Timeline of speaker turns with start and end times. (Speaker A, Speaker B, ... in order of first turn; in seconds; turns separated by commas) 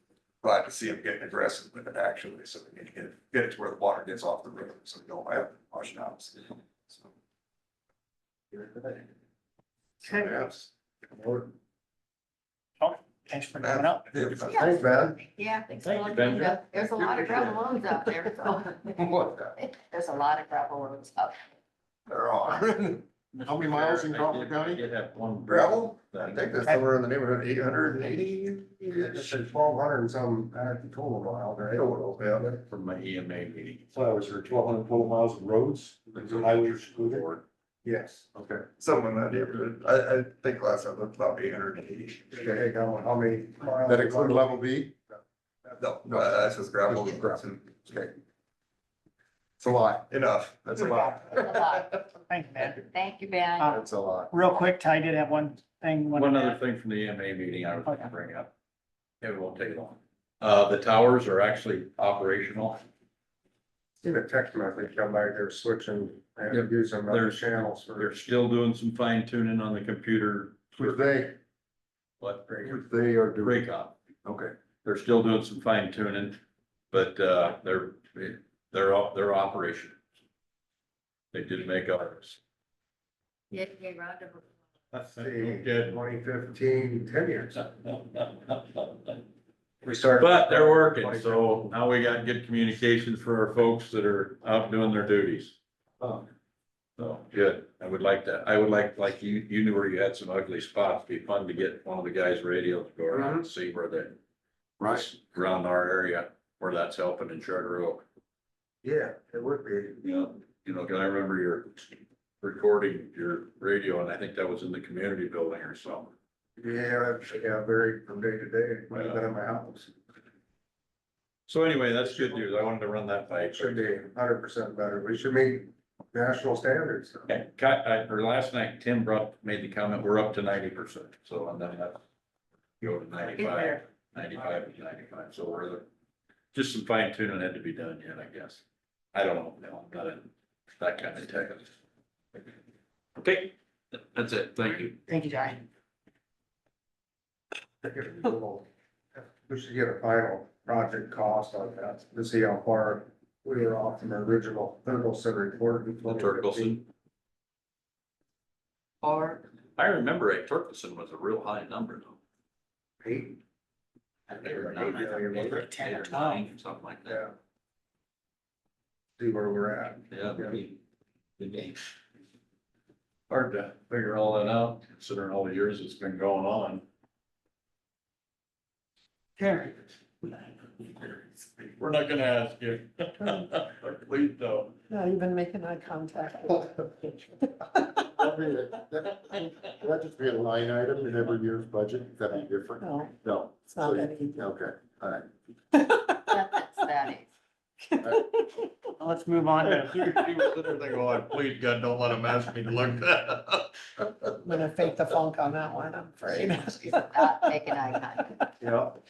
Speaker A: 0.4-7.1, Speaker B: 8.5-9.0, Speaker B: 10.0-11.5, Speaker C: 12.8-14.1, Speaker A: 13.6-14.7, Speaker D: 14.5-14.8, Speaker B: 14.5-15.2, Speaker D: 15.3-19.0, Speaker E: 15.8-16.7, Speaker A: 17.2-17.5, Speaker D: 19.6-21.4, Speaker A: 22.1-23.0, Speaker E: 23.3-26.5, Speaker F: 23.4-24.8, Speaker A: 25.5-29.3, Speaker B: 28.2-32.6, Speaker A: 31.7-32.5, Speaker E: 32.7-33.9, Speaker F: 33.9-37.4, Speaker B: 37.8-38.4, Speaker A: 38.6-42.4, Speaker B: 42.3-44.6, Speaker F: 43.8-44.9, Speaker B: 45.1-45.8, Speaker A: 45.8-47.7, Speaker F: 46.0-48.1, Speaker F: 49.6-50.1, Speaker A: 50.1-51.8, Speaker D: 50.8-52.0, Speaker C: 52.3-52.9, Speaker D: 52.9-53.7, Speaker C: 53.5-56.6, Speaker F: 53.7-54.3, Speaker E: 56.1-58.5, Speaker E: 59.2-62.8, Speaker B: 64.0-68.1, Speaker E: 66.5-71.0, Speaker F: 70.8-71.3, Speaker E: 72.2-74.0, Speaker F: 72.6-73.7, Speaker F: 74.2-74.5, Speaker E: 74.8-76.4, Speaker E: 76.9-80.0, Speaker E: 81.3-82.4, Speaker D: 83.8-84.3, Speaker E: 84.9-86.0, Speaker B: 85.1-87.5, Speaker E: 87.5-89.2, Speaker B: 89.8-91.4, Speaker E: 90.2-95.5, Speaker E: 97.0-104.2, Speaker B: 103.1-103.4, Speaker F: 104.8-105.1, Speaker E: 104.8-108.0, Speaker B: 108.8-110.0, Speaker E: 110.0-116.1, Speaker B: 116.6-119.9, Speaker E: 118.9-119.2, Speaker E: 121.5-124.0, Speaker B: 123.5-127.2, Speaker E: 127.3-132.0, Speaker E: 132.8-135.8, Speaker E: 136.5-138.6, Speaker E: 139.1-141.7, Speaker E: 143.2-144.9, Speaker C: 145.1-145.6, Speaker B: 147.8-148.6, Speaker B: 149.2-156.8, Speaker E: 156.1-156.8, Speaker D: 159.0-159.4, Speaker E: 159.8-162.2, Speaker B: 163.0-163.4, Speaker E: 164.3-167.2, Speaker B: 164.5-165.6, Speaker C: 165.2-166.5, Speaker B: 167.1-167.3, Speaker B: 169.2-170.6, Speaker E: 170.1-170.8, Speaker E: 171.4-171.8, Speaker E: 173.3-176.8, Speaker C: 179.4-180.4, Speaker C: 181.0-181.5, Speaker E: 181.8-184.8, Speaker G: 184.9-187.5, Speaker F: 188.2-195.2, Speaker G: 192.8-193.1, Speaker G: 193.7-194.4, Speaker G: 195.7-196.3, Speaker D: 196.3-197.3, Speaker G: 197.9-198.7, Speaker C: 199.0-200.0, Speaker E: 199.6-204.0, Speaker G: 204.4-207.0, Speaker D: 206.9-208.2